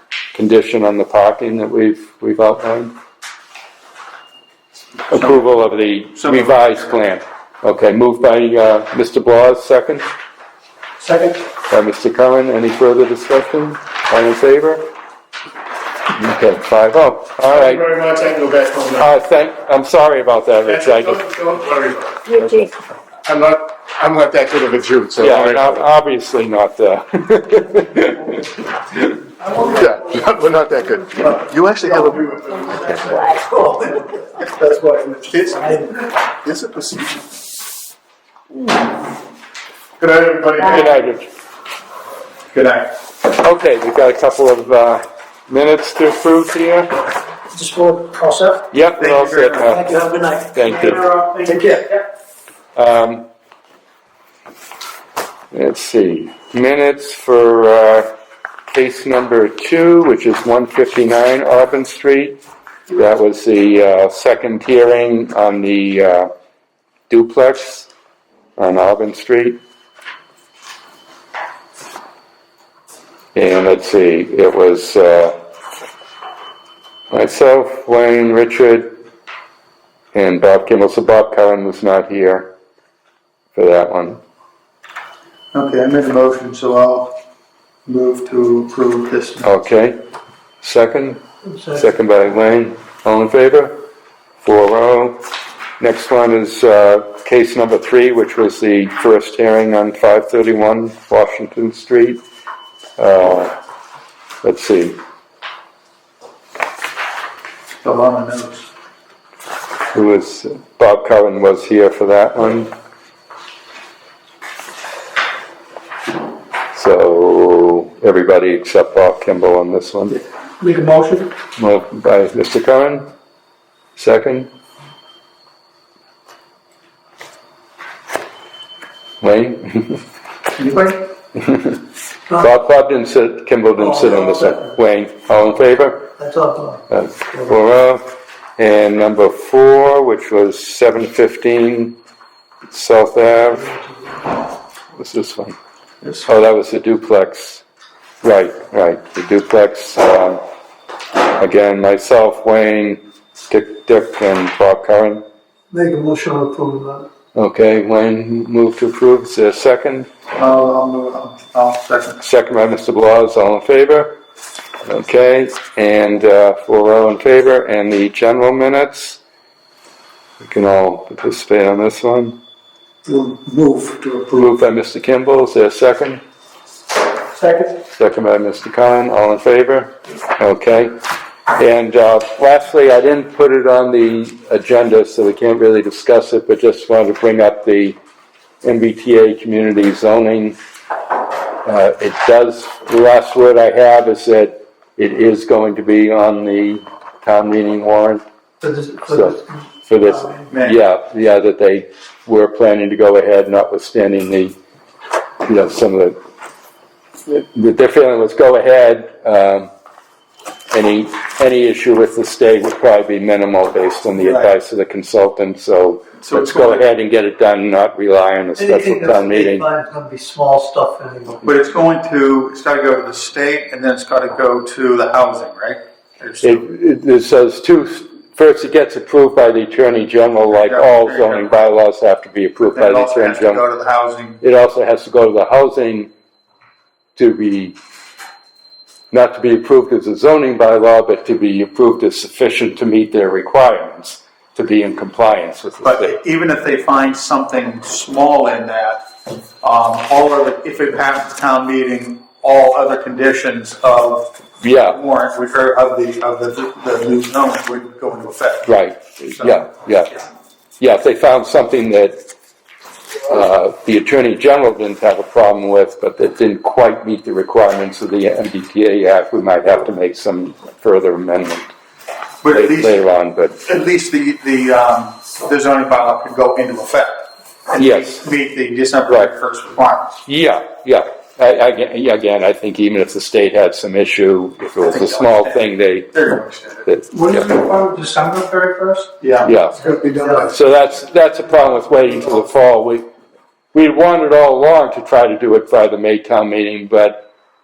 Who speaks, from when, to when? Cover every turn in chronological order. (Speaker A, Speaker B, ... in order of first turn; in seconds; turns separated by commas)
Speaker A: 0.3-2.9, Speaker A: 5.1-10.0, Speaker B: 5.1-5.4, Speaker B: 6.2-6.7, Speaker A: 11.7-14.8, Speaker A: 16.1-17.8, Speaker C: 17.5-19.1, Speaker A: 18.9-21.2, Speaker C: 20.6-22.2, Speaker C: 23.2-25.6, Speaker A: 25.2-29.1, Speaker D: 29.4-31.5, Speaker C: 29.6-33.2, Speaker D: 32.8-35.9, Speaker C: 36.5-37.1, Speaker B: 40.5-40.8, Speaker A: 40.6-41.3, Speaker B: 42.5-42.9, Speaker A: 43.3-46.9, Speaker D: 47.5-48.7, Speaker A: 48.7-49.9, Speaker B: 49.0-49.8, Speaker D: 49.7-51.9, Speaker A: 50.5-51.0, Speaker A: 52.7-53.3, Speaker A: 55.5-58.1, Speaker A: 58.7-62.4, Speaker A: 62.9-66.3, Speaker A: 67.1-67.9, Speaker A: 68.6-69.6, Speaker A: 73.3-75.4, Speaker A: 77.1-79.0, Speaker A: 80.1-82.5, Speaker A: 83.5-84.2, Speaker B: 85.5-87.2, Speaker B: 87.9-89.5, Speaker A: 89.4-90.0, Speaker A: 90.6-93.8, Speaker D: 91.5-91.8, Speaker A: 94.4-95.2, Speaker A: 95.8-102.2, Speaker A: 103.0-103.5, Speaker A: 104.4-105.0, Speaker B: 107.8-108.7, Speaker A: 109.9-112.7, Speaker A: 116.7-120.2, Speaker D: 120.6-121.3, Speaker A: 121.6-123.1, Speaker A: 124.0-124.5, Speaker A: 129.2-130.0, Speaker B: 130.6-131.0, Speaker A: 131.4-131.8, Speaker A: 132.3-136.1, Speaker D: 133.8-134.7, Speaker D: 136.2-136.8, Speaker A: 136.9-142.0, Speaker A: 142.7-143.8, Speaker D: 143.5-143.9, Speaker A: 144.9-145.6, Speaker A: 146.2-147.6, Speaker A: 148.2-150.4, Speaker A: 151.4-155.2, Speaker D: 155.7-157.1, Speaker A: 157.3-160.1, Speaker B: 160.3-162.2, Speaker A: 162.2-164.2, Speaker A: 164.8-169.2, Speaker A: 170.4-172.4, Speaker D: 173.1-174.3, Speaker A: 174.3-176.2, Speaker D: 177.3-177.8, Speaker A: 177.9-181.0, Speaker A: 181.6-188.0, Speaker A: 188.6-190.6, Speaker A: 191.7-198.2, Speaker D: 198.6-200.5, Speaker A: 199.1-204.6, Speaker B: 200.5-200.8, Speaker A: 205.5-206.2, Speaker A: 207.3-209.7, Speaker A: 210.7-219.7, Speaker B: 214.2-214.6, Speaker B: 216.2-216.8, Speaker D: 218.6-221.5, Speaker B: 221.4-226.7, Speaker A: 226.4-233.6, Speaker B: 230.5-231.6, Speaker B: 232.7-234.4, Speaker A: 234.4-236.1, Speaker A: 237.2-237.8, Speaker A: 239.1-246.2, Speaker B: 245.8-249.1, Speaker B: 249.6-258.7, Speaker A: 254.6-255.0, Speaker A: 258.6-260.2, Speaker A: 260.8-262.2, Speaker A: 263.2-271.7, Speaker B: 272.4-273.0, Speaker A: 272.5-273.6, Speaker B: 273.6-280.1, Speaker A: 277.8-278.3, Speaker A: 280.2-286.1, Speaker B: 284.8-286.9, Speaker A: 286.9-287.6, Speaker D: 287.1-288.4, Speaker B: 289.2-289.6, Speaker A: 289.4-293.1, Speaker D: 289.9-290.5, Speaker A: 293.7-297.3